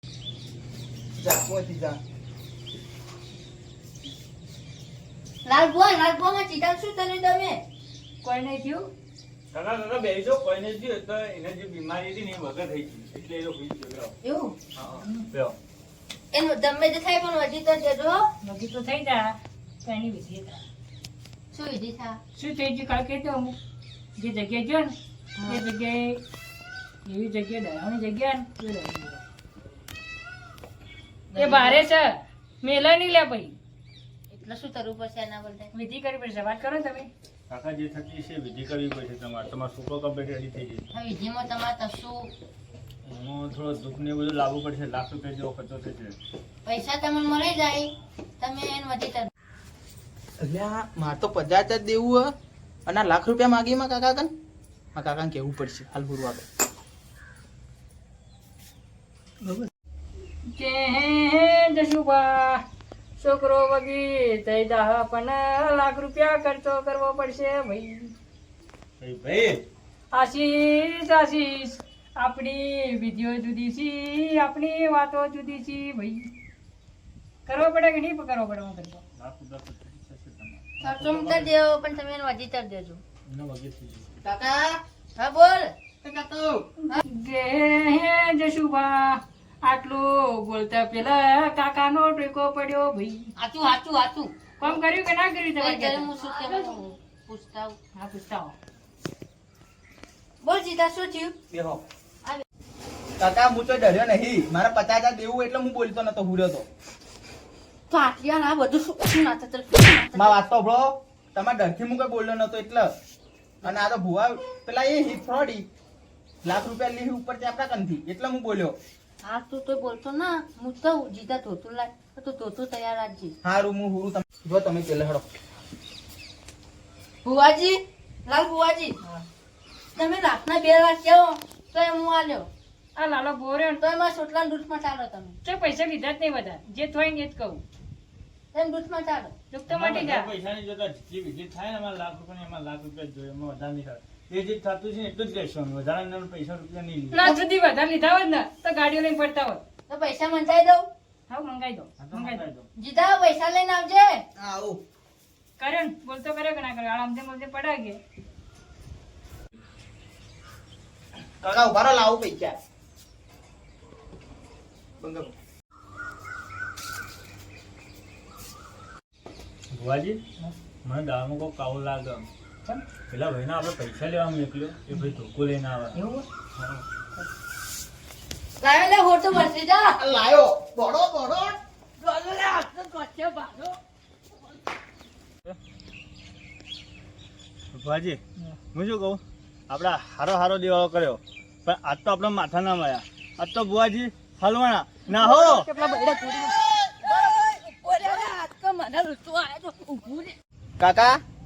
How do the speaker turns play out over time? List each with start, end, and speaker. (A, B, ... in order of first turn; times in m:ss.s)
0:01.2-0:02.0 A
0:05.4-0:07.6 B
0:08.2-0:08.9 C
0:09.5-0:14.1 D
0:14.2-0:14.6 B
0:14.7-0:15.6 D
0:16.3-0:18.2 B
0:18.4-0:20.6 C
0:21.5-0:22.2 B
0:22.3-0:23.6 C
0:24.2-0:24.9 C
0:25.4-0:25.6 B
0:25.4-0:26.2 C
0:27.0-0:29.2 C
0:31.3-0:31.8 B
0:31.4-0:33.6 C
0:34.3-0:35.7 B
0:35.7-0:37.1 C
0:37.5-0:40.8 D
0:40.9-0:42.3 B
0:43.0-0:46.2 D
0:46.6-0:49.3 B
0:50.4-0:52.3 A
0:52.8-0:54.3 A
0:54.9-0:56.4 A
0:59.4-0:59.7 C
1:00.5-1:02.6 C
1:03.2-1:08.1 C
1:09.0-1:09.6 D
1:10.1-1:16.3 C
1:17.5-1:19.0 C
1:19.2-1:21.5 D
1:20.8-1:23.0 B
1:23.3-1:24.1 D
1:24.2-1:24.8 A
1:25.2-1:25.7 B
1:26.0-1:26.6 A
1:26.9-1:33.3 C
1:33.4-1:34.8 B
1:34.6-1:36.8 C
1:35.5-1:37.8 B
1:37.9-1:38.5 C
1:40.4-1:41.3 B
1:41.5-1:41.8 A
1:43.2-1:46.7 A
1:47.9-1:50.4 B
1:50.2-1:52.9 A
1:53.6-1:53.9 B
1:53.6-1:55.6 A
1:56.4-1:58.7 A
1:59.2-2:03.3 B
2:03.4-2:05.2 A
2:07.2-2:09.0 B
2:09.9-2:12.5 B
2:13.0-2:13.8 C
2:13.8-2:15.4 B
2:15.4-2:17.6 C
2:18.5-2:19.3 B
2:19.5-2:20.3 C
2:19.7-2:27.3 D
2:27.1-2:29.6 C
2:27.2-2:27.5 B
2:29.9-2:30.9 B
2:31.3-2:32.4 C
2:32.0-2:32.6 D
2:32.8-2:34.2 B
2:34.4-2:34.8 A
2:35.6-2:38.0 C
2:41.4-2:42.6 A
2:45.0-2:45.3 A
2:49.7-2:50.2 D
2:50.8-2:52.3 D
2:53.1-2:56.0 D
2:56.0-2:56.2 C
2:56.6-2:56.8 D
2:58.6-3:00.0 B
3:00.0-3:01.6 A
3:02.0-3:03.8 B
3:07.7-3:08.2 D
3:08.7-3:15.7 D
3:15.1-3:16.6 C
3:15.8-3:20.4 B
3:20.8-3:21.2 A